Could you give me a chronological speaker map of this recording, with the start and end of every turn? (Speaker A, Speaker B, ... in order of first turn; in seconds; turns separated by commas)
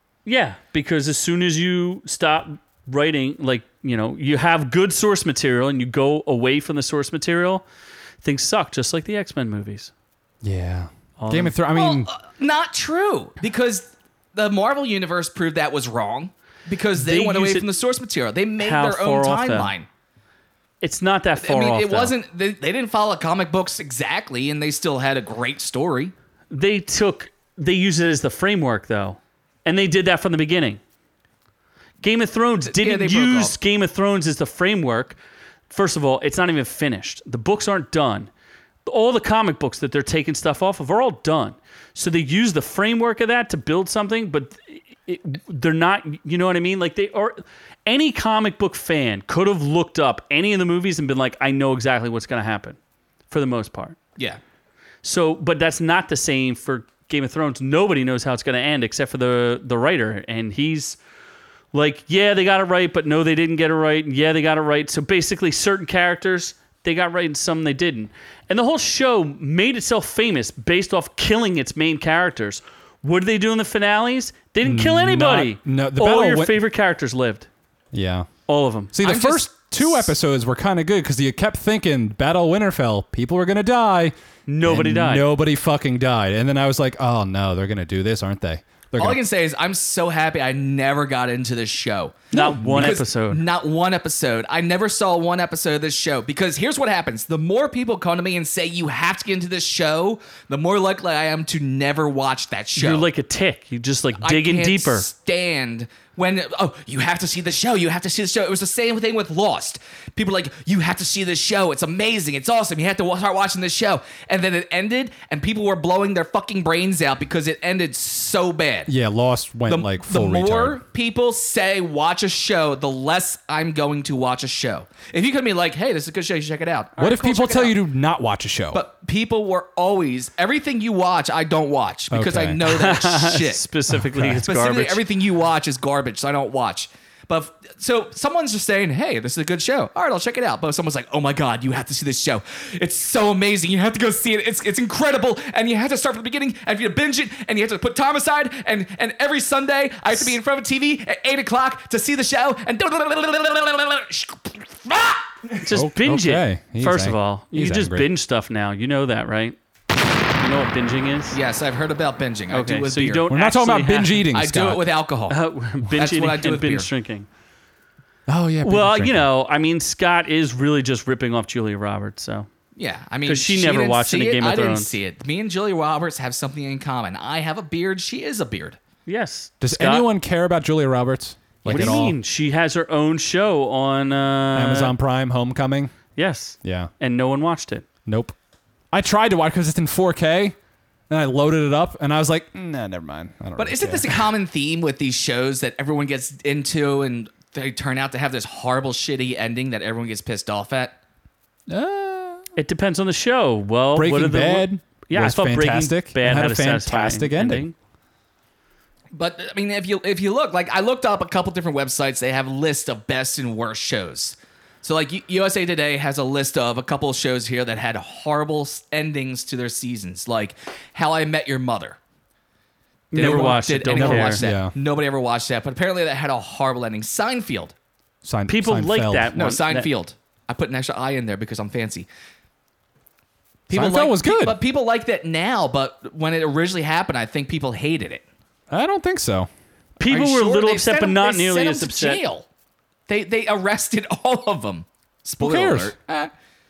Speaker A: 0.2-7.6, Speaker A: 8.2-9.9, Speaker B: 10.4-12.1, Speaker A: 11.2-11.6, Speaker C: 11.7-19.9, Speaker A: 16.9-17.7, Speaker A: 18.6-19.7, Speaker A: 20.8-22.1, Speaker C: 21.4-26.1, Speaker A: 26.5-30.8, Speaker A: 32.0-35.2, Speaker C: 32.6-33.5, Speaker A: 35.7-38.3, Speaker A: 38.9-52.8, Speaker A: 53.3-54.0, Speaker A: 55.0-61.0, Speaker A: 61.7-77.5, Speaker B: 74.6-76.6, Speaker B: 77.9-78.3, Speaker A: 78.5-78.9, Speaker B: 78.9-89.2, Speaker C: 79.0-80.1, Speaker A: 84.5-85.3, Speaker C: 89.0-103.1, Speaker A: 92.3-93.4, Speaker A: 102.7-105.1, Speaker C: 104.2-118.9, Speaker B: 118.9-120.8, Speaker C: 119.7-127.8, Speaker B: 127.0-128.8, Speaker C: 128.7-133.6, Speaker B: 132.1-132.6, Speaker A: 132.6-135.0, Speaker C: 134.2-155.6, Speaker A: 155.6-159.6, Speaker B: 155.7-158.1, Speaker A: 160.4-161.4, Speaker C: 161.3-163.3, Speaker A: 162.5-164.2, Speaker B: 163.3-164.9, Speaker C: 164.3-165.4, Speaker A: 165.3-167.3, Speaker C: 165.9-166.9, Speaker B: 168.3-169.2, Speaker A: 168.6-172.5, Speaker C: 172.8-178.8, Speaker A: 173.2-174.9, Speaker A: 179.1-180.1, Speaker B: 179.6-182.2, Speaker C: 181.6-182.1, Speaker A: 181.6-184.9, Speaker B: 184.5-185.9, Speaker A: 186.2-187.8, Speaker B: 186.6-186.9, Speaker B: 188.1-188.3, Speaker B: 188.9-190.6, Speaker B: 191.1-194.3, Speaker C: 193.6-201.0, Speaker B: 201.7-202.4, Speaker A: 202.6-207.7, Speaker B: 203.9-207.7, Speaker C: 209.1-222.0, Speaker A: 223.1-224.4, Speaker C: 223.1-227.7, Speaker B: 223.2-224.7, Speaker B: 228.2-229.5, Speaker A: 228.5-229.9, Speaker C: 229.3-232.1, Speaker C: 233.7-238.2, Speaker B: 233.7-234.6, Speaker B: 238.7-239.5, Speaker A: 240.0-242.2, Speaker C: 240.0-242.4, Speaker C: 243.1-246.3, Speaker B: 245.4-245.9